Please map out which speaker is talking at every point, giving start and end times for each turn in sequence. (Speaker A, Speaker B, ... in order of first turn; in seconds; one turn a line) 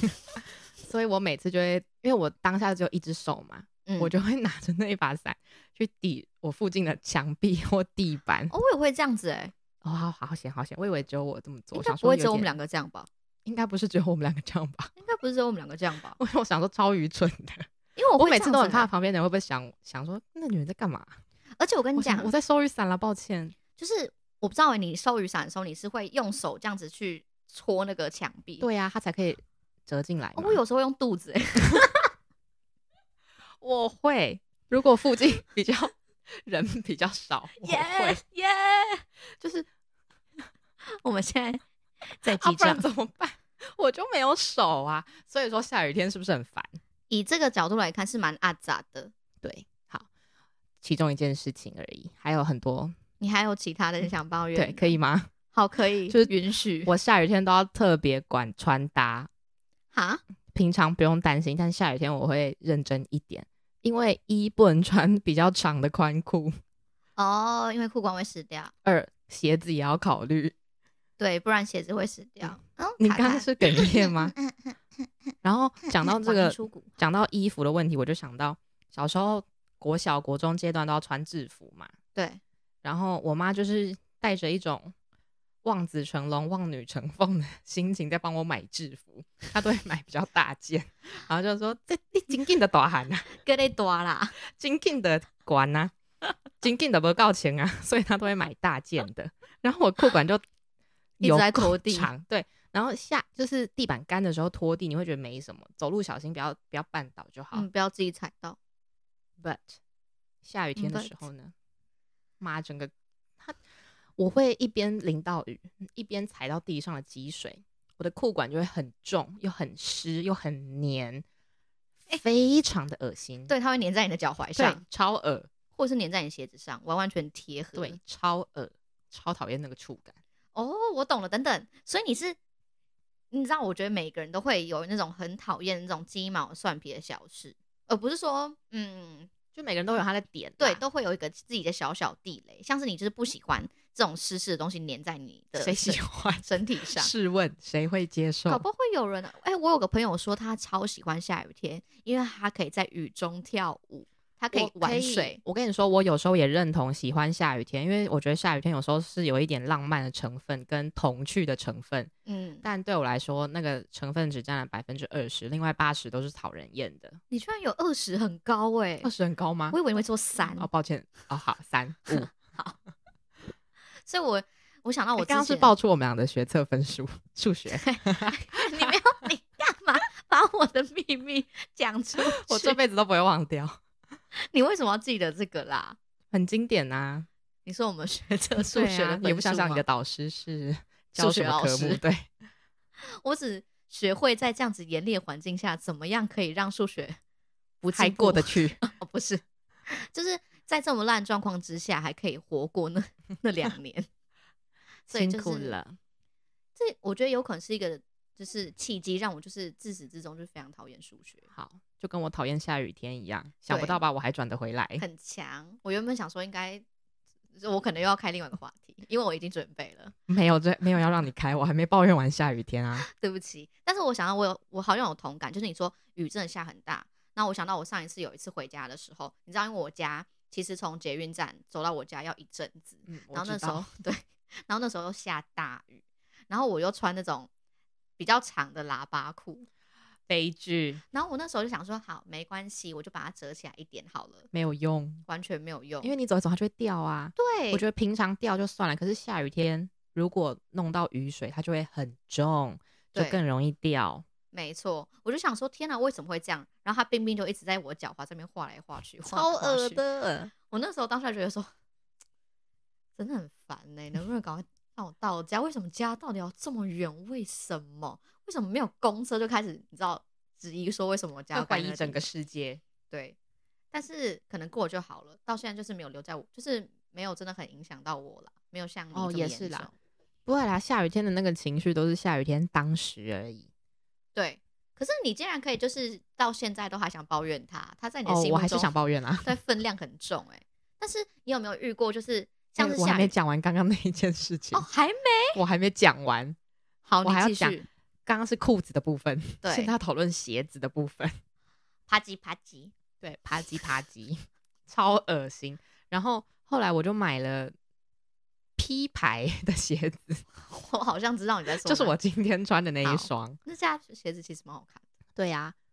Speaker A: 0.8-8.5
Speaker B: 3.9-4.1
Speaker B: 8.5-9.5
Speaker A: 9.8-12.5
Speaker B: 11.7-13.1
Speaker A: 13.4-14.9
Speaker B: 15.0-16.2
Speaker A: 16.2-21.2
Speaker B: 18.0-18.9
Speaker B: 21.6-22.3
Speaker A: 22.0-23.6
Speaker B: 23.8-28.6
Speaker A: 28.6-30.6
Speaker B: 30.4-32.1
Speaker A: 33.6-38.2
Speaker B: 37.6-39.0
Speaker A: 39.4-39.7
Speaker B: 40.9-42.9
Speaker A: 42.3-46.8
Speaker B: 47.1-49.1
Speaker A: 49.4-50.1
Speaker A: 50.8-53.0
Speaker B: 53.2-55.0
Speaker A: 54.5-55.3
Speaker B: 55.5-56.9
Speaker A: 56.1-56.3
Speaker A: 56.9-59.3
Speaker B: 59.9-60.2
Speaker A: 60.5-66.5
Speaker B: 67.2-68.7
Speaker A: 68.8-70.5
Speaker B: 71.2-74.7
Speaker A: 72.4-74.3
Speaker A: 75.4-81.9
Speaker B: 76.0-76.9
Speaker B: 82.1-82.4
Speaker A: 82.8-84.9
Speaker A: 85.6-93.3
Speaker B: 93.3-94.4
Speaker A: 94.4-95.9
Speaker A: 96.6-100.4
Speaker A: 101.2-107.7
Speaker B: 101.2-102.1
Speaker B: 107.5-108.6
Speaker A: 109.4-109.8
Speaker A: 110.4-111.5
Speaker B: 110.8-111.2
Speaker A: 112.4-113.6
Speaker A: 114.2-121.2
Speaker A: 122.1-123.5
Speaker B: 123.5-124.8
Speaker A: 124.6-125.5
Speaker B: 125.8-128.0
Speaker A: 127.8-130.2
Speaker B: 130.6-132.4
Speaker B: 133.3-139.3
Speaker A: 139.5-140.8
Speaker B: 140.6-147.1
Speaker A: 145.6-148.6
Speaker B: 148.5-155.4
Speaker A: 154.5-162.1
Speaker B: 162.3-162.7
Speaker A: 162.6-167.2
Speaker B: 167.3-169.1
Speaker A: 169.0-169.8
Speaker B: 169.7-170.7
Speaker A: 170.4-172.3
Speaker B: 172.3-172.8
Speaker B: 174.1-175.7
Speaker A: 175.2-178.4
Speaker B: 177.7-182.8
Speaker A: 182.3-183.8
Speaker B: 184.3-186.0
Speaker A: 186.3-187.3
Speaker B: 187.6-189.8
Speaker A: 188.6-192.3
Speaker B: 191.2-192.0
Speaker B: 193.0-197.2
Speaker B: 197.8-204.1
Speaker A: 198.0-198.8
Speaker A: 205.1-206.0
Speaker B: 205.1-205.8
Speaker B: 206.8-211.5
Speaker A: 211.6-215.0
Speaker B: 213.7-214.0
Speaker B: 215.0-216.8
Speaker B: 217.6-220.1
Speaker A: 220.3-223.1
Speaker B: 222.9-237.5
Speaker A: 233.1-233.9
Speaker B: 238.2-239.7
Speaker A: 240.3-241.0
Speaker B: 241.1-244.5
Speaker A: 244.5-245.2
Speaker B: 245.3-246.1
Speaker A: 246.0-254.2
Speaker B: 247.4-247.8
Speaker B: 253.1-253.4
Speaker B: 254.5-260.0
Speaker A: 259.2-260.5
Speaker B: 260.7-261.7
Speaker B: 263.2-272.2
Speaker A: 271.5-272.8
Speaker B: 273.1-273.4
Speaker B: 273.9-279.9
Speaker A: 279.1-279.9
Speaker A: 280.5-283.7
Speaker B: 284.4-293.3
Speaker A: 288.3-289.5
Speaker A: 292.8-294.9
Speaker B: 294.7-295.6
Speaker A: 295.5-296.6
Speaker B: 297.1-297.9
Speaker A: 297.2-301.4
Speaker B: 299.6-299.9
Speaker B: 302.1-302.9
Speaker A: 303.2-307.7
Speaker A: 308.8-310.4
Speaker B: 310.6-312.1
Speaker A: 311.8-313.6
Speaker B: 313.0-315.0
Speaker A: 315.4-315.7